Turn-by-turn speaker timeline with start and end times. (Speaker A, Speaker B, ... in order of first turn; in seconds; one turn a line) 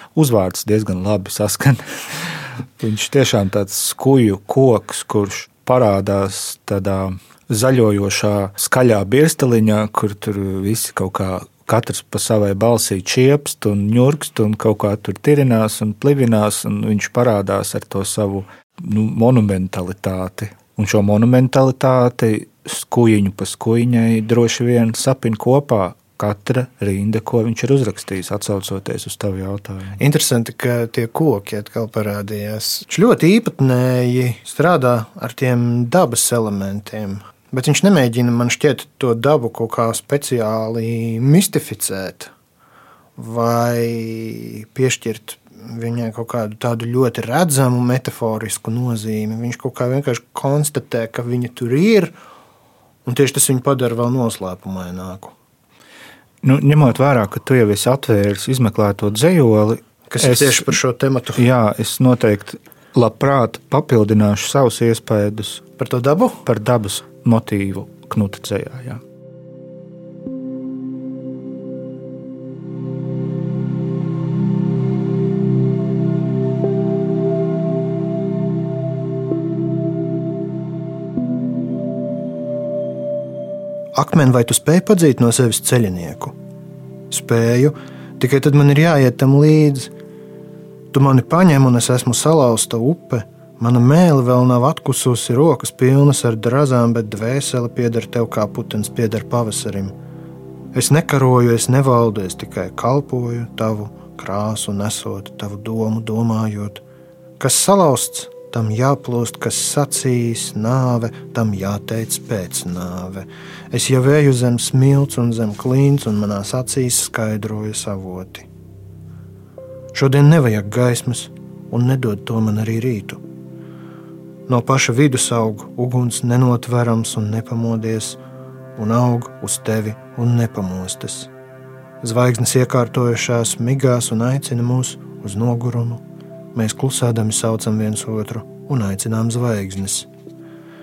Speaker A: 0.1-30.0
Speaker B: 30.0-42.3
Speaker B: 43.2-52.1
Speaker B: 53.0-55.4
Speaker A: 56.4-60.8
Speaker B: 60.1-61.4
Speaker A: 61.4-65.6
Speaker B: 65.8-66.4
Speaker A: 66.4-69.0
Speaker B: 84.0-86.3
Speaker B: 87.1-89.9
Speaker B: 90.9-99.9
Speaker B: 100.7-106.8
Speaker B: 107.4-118.5
Speaker B: 119.9-123.2
Speaker B: 124.5-128.2
Speaker B: 128.8-131.3
Speaker B: 132.0-136.0
Speaker B: 136.5-140.1